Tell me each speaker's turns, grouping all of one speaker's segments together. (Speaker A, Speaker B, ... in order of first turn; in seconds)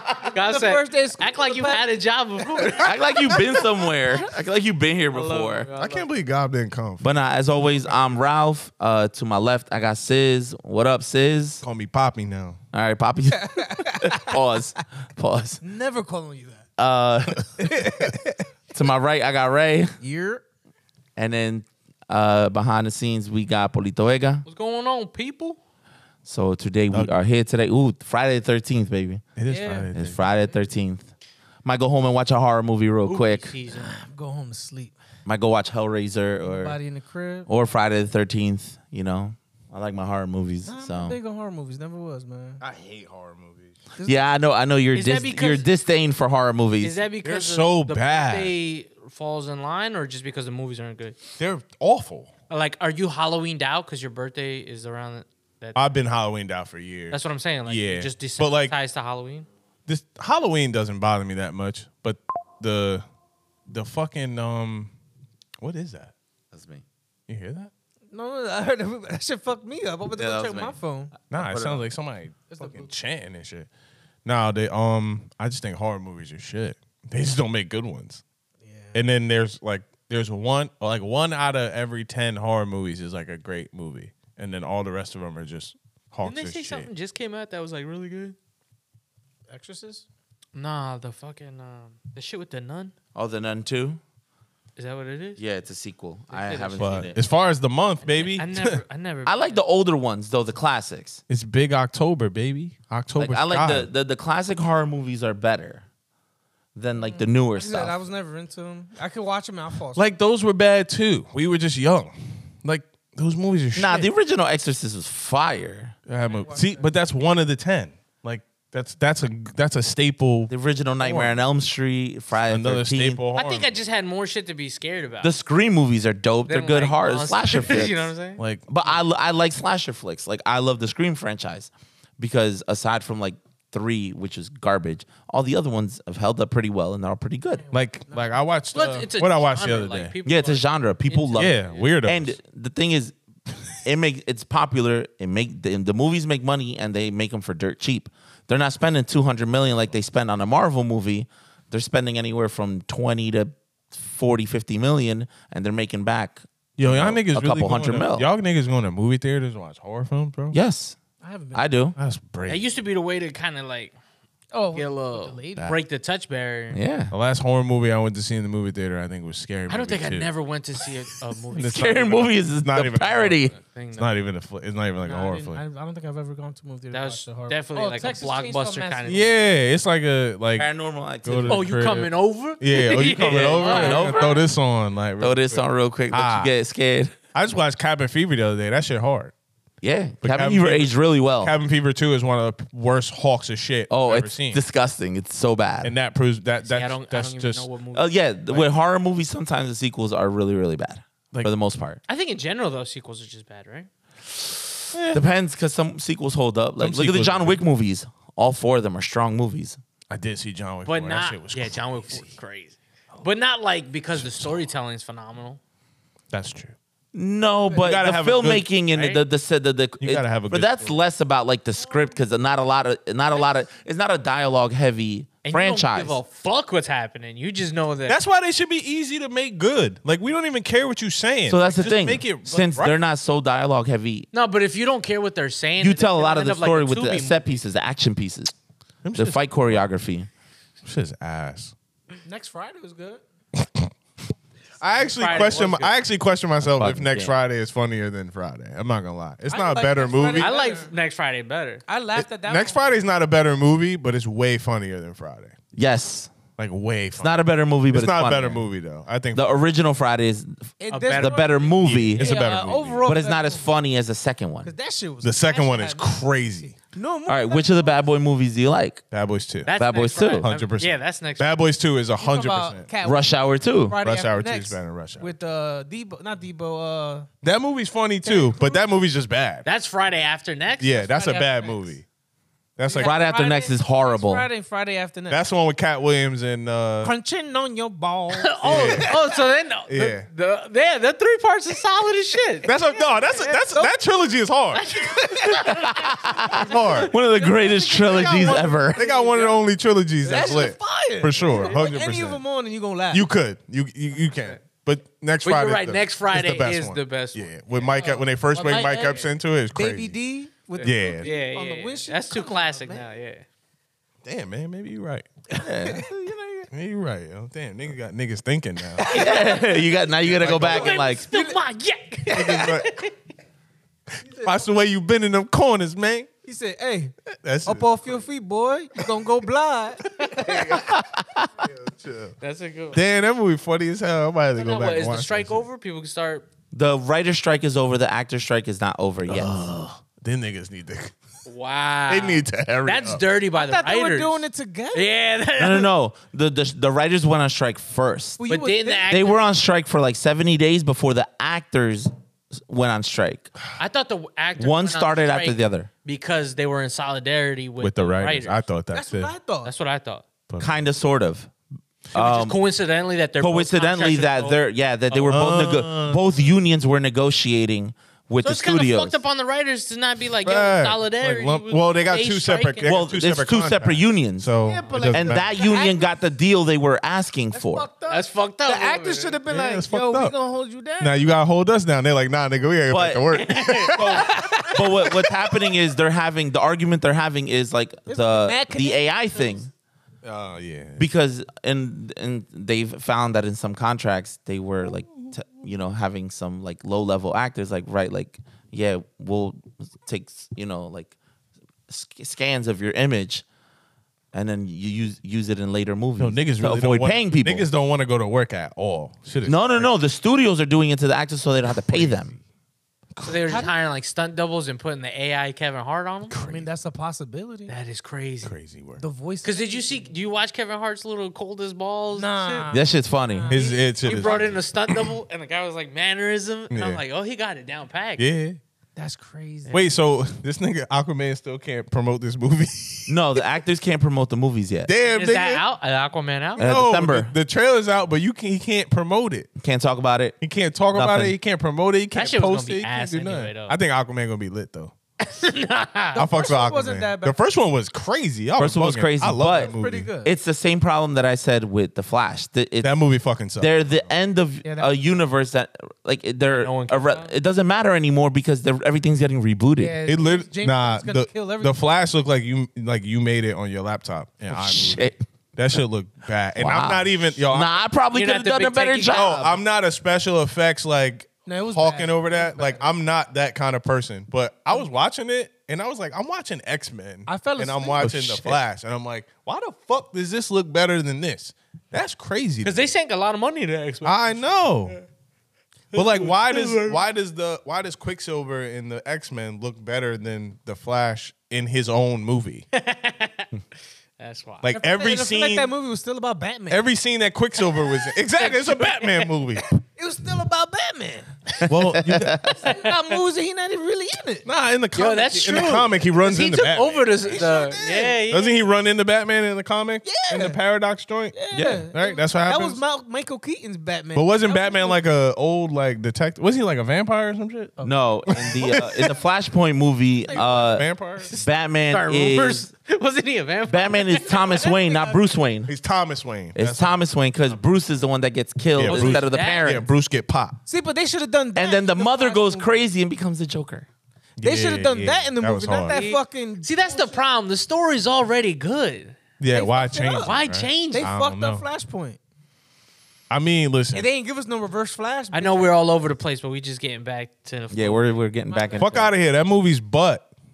Speaker A: 0.3-3.0, 5.1-6.1, 24.5-25.6, 33.0-33.9, 44.9-45.7, 46.8-51.2, 52.5-55.9, 57.1-59.5, 86.2-88.3, 90.5-92.9, 94.8-95.4, 96.3-97.2, 98.1-99.6, 123.3-125.4, 126.5-128.4, 138.7-141.9, 162.5-163.9, 164.8-166.8, 169.7-172.2, 173.6-174.1, 176.9-179.3, 181.5-184.4, 196.6-198.2, 202.1-203.9, 210.9-215.6, 218.9-219.2, 225.4-228.2, 234.3-237.5, 245.2-245.9, 250.4-251.8, 260.9-261.8, 269.7-271.5, 279.6-281.1, 288.4-292.7, 294.8-297.1, 298.2-298.5, 299.1-299.6, 305.4-307.5, 310.8-313.4, 319.1-320.0, 320.5-323.1, 332.4-333.0, 334.6-336.5, 341.5-345.9, 348.5-349.4, 353.8-358.6, 359.6-360.2, 362.1-365.4, 368.4-372.9, 374.8-375.1, 378.1-379.4, 383.3-384.2, 413.2-416.4, 417.7-418.6, 419.4-422.7, 423.6-428.2, 435.1-436.7, 442.1-443.8, 445.2-446.2, 456.5-457.3, 468.1-469.4, 482.6-485.0, 485.9-487.0, 492.7-493.5, 494.2-494.7, 498.4-499.3, 502.7-503.1, 505.0-508.6, 521.3-524.7, 528.9-529.8, 535.9-539.2, 540.2-541.1, 545.3-548.8
Speaker B: 0.3-1.8, 13.3-14.4, 15.6-16.7, 17.6-18.4, 20.0-20.4, 29.5-29.9, 33.7-35.0, 36.4-37.5, 40.7-42.6, 44.0-44.2, 68.1-71.1, 72.5-72.9, 78.6-79.0, 89.5-90.0, 107.0-110.0, 116.2-116.9, 137.6-138.4, 161.2-161.8, 164.5-165.7, 175.0-179.3, 242.2-243.2, 245.3-245.6, 249.5-250.9, 251.9-253.0, 260.8-263.7, 264.6-266.2, 266.8-268.1, 272.2-277.3, 278.2-279.0, 281.1-281.8, 282.9-285.4, 287.0-289.3, 293.3-293.9, 295.0-299.4, 300.2-303.3, 307.8-313.1, 315.5-316.7, 319.0-319.4, 320.9-321.6, 324.2-324.6, 326.4-327.1, 327.6-330.6, 343.5-345.1, 348.4-349.1, 358.9-359.7, 374.6-376.1, 377.5-381.2, 383.9-385.5, 388.1-389.6, 413.5-413.7, 416.4-417.7, 419.0-420.1, 422.1-424.6, 429.0-429.8, 446.1-447.4, 449.5-450.3, 454.6-454.9, 459.8-461.8, 471.5-472.9, 477.3-478.2, 494.7-496.8, 500.0-501.3, 502.6-504.5, 507.3-508.2, 510.0-510.6, 511.3-515.0, 517.8-518.8, 520.3-520.5, 524.5-525.2, 530.7-532.7, 534.4-537.2, 539.5-540.4, 540.9-542.2, 543.9-546.0
Speaker C: 2.8-5.7, 7.0-11.6, 12.7-15.6, 16.8-17.7, 18.7-19.9, 21.2-24.4, 26.2-29.2, 29.9-31.1, 31.6-33.5, 35.3-36.8, 37.5-41.2, 44.0-47.0, 66.5-66.8, 70.2-70.8, 71.3-71.8, 93.2-94.0, 95.4-97.2, 99.3-101.2, 103.2-105.8, 106.8-108.0, 113.8-116.0, 120.5-123.2, 125.2-128.1, 128.7-137.7, 140.2-143.2, 143.8-158.3, 160.5-161.0, 161.5-161.9, 166.7-167.1, 171.6-173.6, 180.6-181.7, 183.3-184.3, 185.2-187.2, 189.8-191.5, 193.9-195.9, 197.9-202.0, 205.1-209.8, 217.1-226.2, 231.5-234.3, 235.8-238.5, 239.1-240.3, 246.6-247.3, 255.7-256.4, 257.1-258.6, 259.3-262.3, 263.1-264.7, 267.3-269.0, 269.7-270.5, 273.0-274.0, 283.0-284.5, 295.7-299.0, 315.6-316.1, 319.1-321.3, 331.0-331.5, 336.7-339.5, 345.6-348.4, 349.1-353.5, 354.6-355.9, 360.6-361.5, 362.1-362.6, 363.4-369.2, 372.9-374.5, 375.1-377.9, 382.9-383.3, 384.7-389.7, 391.0-401.1, 401.9-403.4, 404.3-407.7, 409.4-412.4, 422.7-423.5, 433.1-434.9, 436.6-437.3, 439.6-440.4, 440.9-441.4, 448.6-452.9, 453.6-460.0, 464.5-465.2, 466.6-469.6, 478.0-478.6, 501.8-502.5, 517.8-522.7, 523.7-525.7, 526.5-529.9, 531.6-533.9, 547.7-549.1
Speaker D: 5.8-7.1, 11.6-12.6, 29.4-30.2, 42.6-43.8, 47.2-48.5, 51.4-52.3, 55.8-58.7, 59.9-63.0, 63.7-64.9, 65.6-66.1, 67.3-67.7, 71.3-73.7, 74.2-78.2, 78.9-86.9, 96.8-98.8, 101.3-103.9, 109.9-114.1, 116.1-121.4, 122.5-123.7, 128.4-128.7, 137.7-140.2, 141.3-142.4, 156.8-160.6, 162.0-162.6, 167.1-170.3, 171.5-175.6, 179.1-180.7, 181.2-186.5, 187.3-189.3, 190.2-194.6, 195.8-197.7, 204.9-205.2, 206.8-207.6, 210.1-212.3, 214.2-214.6, 216.3-216.8, 217.7-218.7, 220.0-221.0, 228.1-233.0, 239.0-239.8, 240.8-241.7, 243.6-243.9, 244.8-250.5, 252.2-255.6, 256.6-259.6, 261.8-263.1, 265.2-266.8, 269.1-269.7, 270.4-272.9, 274.0-275.3, 277.4-279.7, 280.8-282.1, 282.8-283.1, 285.3-287.1, 288.6-289.1, 289.9-290.3, 292.6-294.9, 296.6-297.1, 298.5-302.4, 303.1-310.2, 310.8-311.3, 314.2-315.3, 316.7-319.1, 320.2-320.9, 322.3-323.1, 324.3-326.3, 327.4-328.2, 330.4-331.0, 331.6-332.4, 332.9-335.6, 339.2-341.1, 342.1-343.2, 357.8-359.3, 360.5-360.8, 365.2-366.4, 370.4-375.5, 379.5-380.3, 381.0-384.4, 390.2-391.1, 406.2-409.9, 411.7-412.4, 416.3-416.7, 418.4-419.0, 423.5-425.1, 426.7-427.0, 428.2-428.6, 429.7-433.4, 434.9-435.6, 436.6-439.5, 440.4-444.9, 446.2-450.1, 452.8-454.1, 460.1-467.8, 469.1-482.9, 484.0-485.0, 485.9-492.7, 494.6-495.7, 496.7-499.8, 501.7-502.6, 504.4-507.5, 508.3-512.8, 514.1-517.8, 518.4-519.1, 520.3-521.3, 525.7-527.0, 528.8-530.6, 534.4-536.0, 539.4-541.6, 543.3-544.1, 548.8-550.3